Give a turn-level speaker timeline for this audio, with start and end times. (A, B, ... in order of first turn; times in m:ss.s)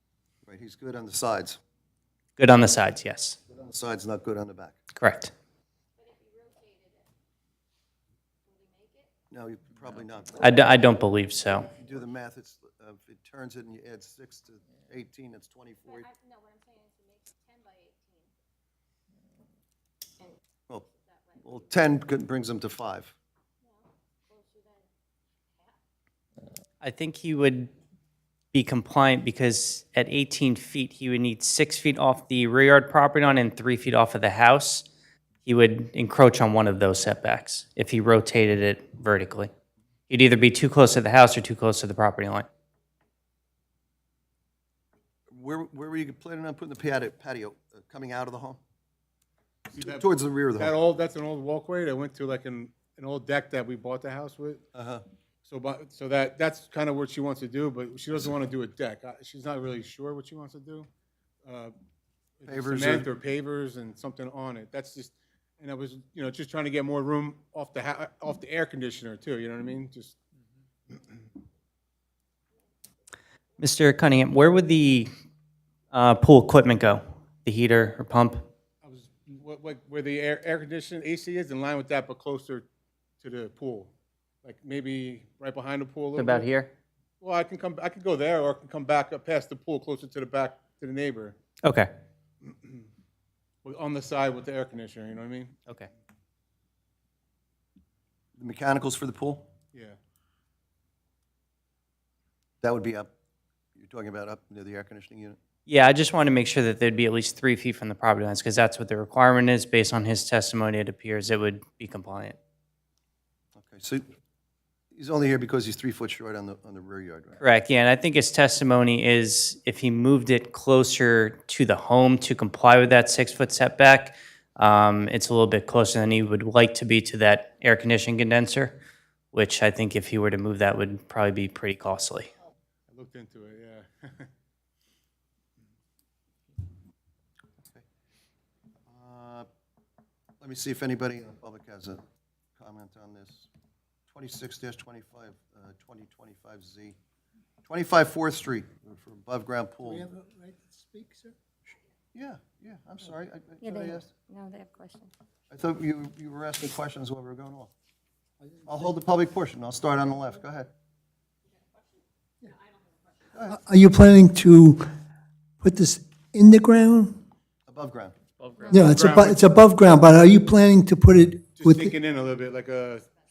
0:00.4-0:01.6 A
0:02.4-0:03.4 B
0:03.5-0:04.8 A
0:05.0-0:05.3 B
0:06.0-0:07.1 C
0:08.5-0:09.1 C
0:09.3-0:10.5 A
0:10.4-0:11.7 B
0:11.7-0:16.1 A
0:15.8-0:18.3 C
0:20.9-0:21.6 C
0:21.4-0:23.1 A
0:23.6-0:24.9 C
0:26.8-0:27.7 B
0:28.5-0:34.9 B
0:35.4-0:39.5 B
0:40.1-0:42.5 B
0:45.3-0:48.6 A
0:49.7-0:54.6 D
0:49.8-0:50.8 A
0:54.7-0:55.0 A
0:55.4-1:00.9 D
1:01.5-1:01.7 D
1:02.4-1:10.2 D
1:02.5-1:03.1 A
1:13.6-1:15.1 B
1:15.9-1:18.5 B
1:18.8-1:22.7 D
1:23.2-1:23.9 D
1:24.4-1:26.5 D
1:26.2-1:26.7 B
1:27.2-1:31.4 D
1:31.6-1:31.9 B
1:32.4-1:32.8 D
1:33.6-1:35.6 D
1:38.4-1:39.5 A
1:42.6-1:43.1 A
1:43.8-1:45.4 A
1:45.7-1:52.4 B
1:53.6-1:54.1 A
1:54.9-1:57.4 A
1:57.4-2:08.8 B
2:09.3-2:12.3 B
2:12.9-2:14.3 D
2:18.9-2:19.5 A
2:20.4-2:22.0 A
2:22.6-2:23.5 A
2:24.1-2:27.0 A
2:27.6-2:30.1 A
2:29.8-2:31.4 E
2:32.1-2:34.1 A
2:33.6-2:35.1 C
2:35.5-2:37.7 A
2:38.4-2:38.8 E
2:38.7-2:40.7 A
2:43.3-2:43.6 A
2:43.5-2:44.9 E
2:45.6-2:47.2 E
2:47.7-2:48.2 A
2:48.4-2:49.5 D
2:48.7-2:51.9 E
2:51.6-2:53.1 D